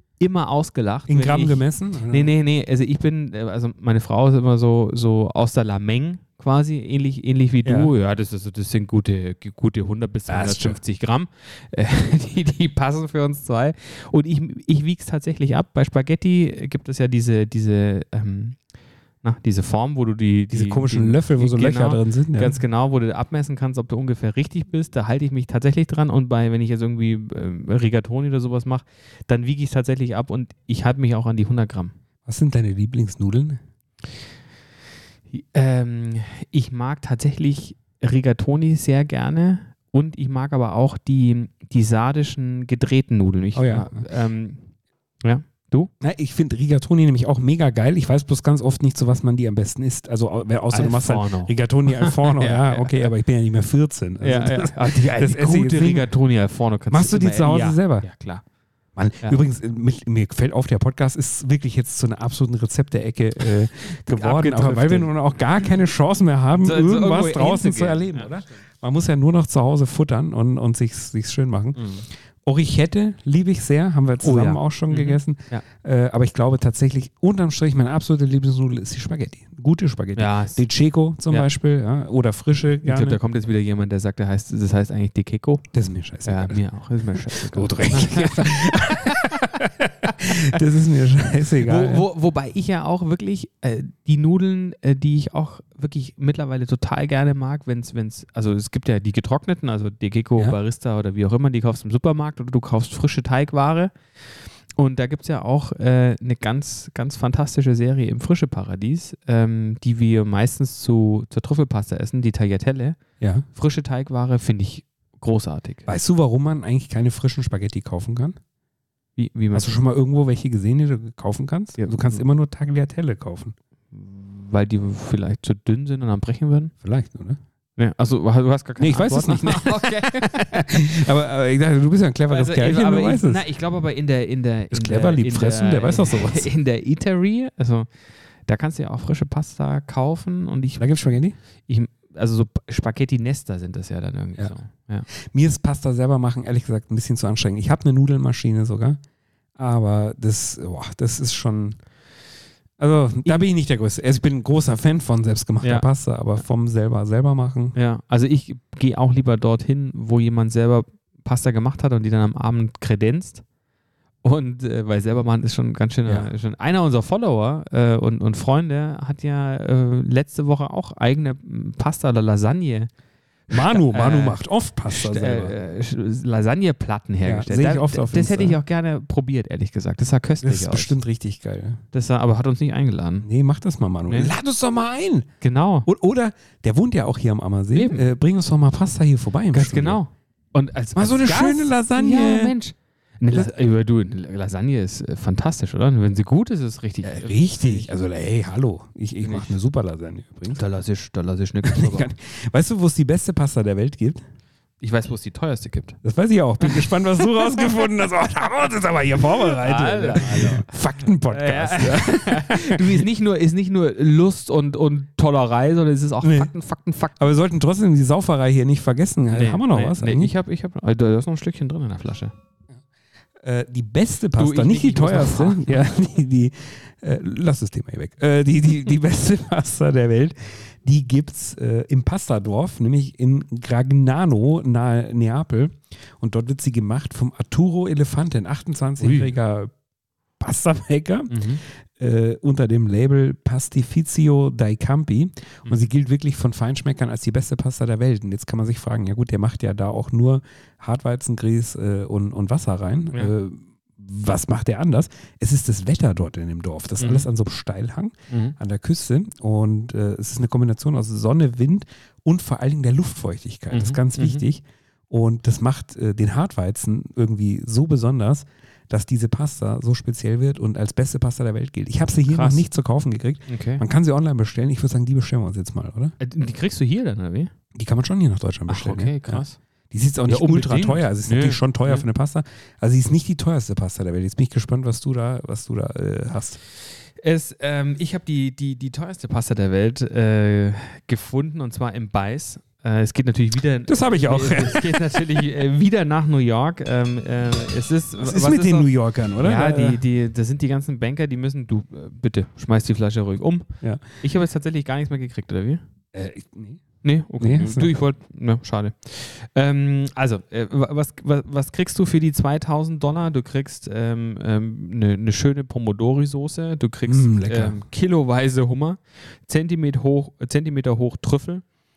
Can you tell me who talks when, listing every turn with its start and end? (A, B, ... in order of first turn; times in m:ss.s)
0:00.2-0:18.6 A
0:01.1-0:02.3 B
0:07.6-0:07.9 B
0:10.3-0:10.8 B
0:19.2-0:31.9 A
0:20.5-0:22.6 B
0:32.2-0:33.6 B
0:35.3-0:44.7 A
0:43.6-0:44.0 B
0:45.2-0:45.9 A
0:46.0-0:56.1 B
0:50.7-0:53.1 A
0:54.2-0:58.4 A
0:56.9-0:58.1 B
0:59.0-1:11.9 B
1:04.1-1:05.1 A
1:06.6-1:08.3 A
1:11.8-1:12.0 A
1:12.4-1:23.2 B
1:14.2-1:15.6 A
1:20.2-1:20.7 A
1:22.8-1:25.7 A
1:25.7-1:26.6 B
1:26.2-1:29.5 A
1:27.2-1:32.0 B
1:31.6-1:53.0 A
1:53.2-1:53.4 B
1:53.5-1:55.9 A
1:55.9-1:58.4 B
1:59.2-1:59.8 A
1:59.5-2:03.6 B
2:01.8-2:02.2 A
2:03.9-2:06.7 A
2:06.8-2:07.4 B
2:07.8-2:10.9 A
2:08.8-2:13.4 B
2:12.3-2:17.9 A
2:14.7-2:16.5 B
2:18.5-2:20.9 A
2:20.8-2:21.4 B
2:21.7-2:25.1 A
2:25.1-2:29.0 B
2:29.6-2:31.8 B
2:32.8-2:37.8 B
2:35.6-2:35.9 A
2:37.8-2:43.4 A
2:44.2-2:52.9 A
2:53.5-3:01.0 A
2:53.5-2:55.5 B
2:57.2-2:58.6 B
3:00.4-3:01.8 B
3:01.9-3:03.3 A
3:03.2-3:05.3 B
3:05.4-3:05.9 A
3:05.8-3:10.0 B
3:07.7-3:08.1 A
3:09.5-3:17.9 A
3:11.0-3:12.5 B
3:17.0-3:20.6 B
3:19.2-3:19.5 A
3:20.5-3:22.1 A
3:21.6-3:24.2 B
3:24.8-3:26.0 A
3:26.0-3:33.0 B
3:29.5-3:30.7 A
3:31.3-3:37.2 A
3:36.2-3:36.5 B
3:37.2-3:40.3 B
3:39.3-3:42.3 A
3:43.4-3:59.7 B
3:44.4-3:45.8 A
3:59.0-3:59.3 A
4:00.4-4:36.2 B
4:01.3-4:01.6 A
4:17.0-4:17.3 A
4:18.3-4:18.6 A
4:23.7-4:24.4 A
4:32.3-4:32.7 A
4:33.5-4:33.8 A
4:36.2-4:37.5 A
4:37.8-4:46.6 B
4:38.7-4:39.6 A
4:40.3-4:42.1 A
4:47.2-5:05.8 A
4:53.9-4:55.2 B
4:58.2-5:00.0 B
5:06.1-5:06.8 B
5:07.0-5:21.6 A
5:07.4-5:07.9 B
5:17.1-5:17.8 B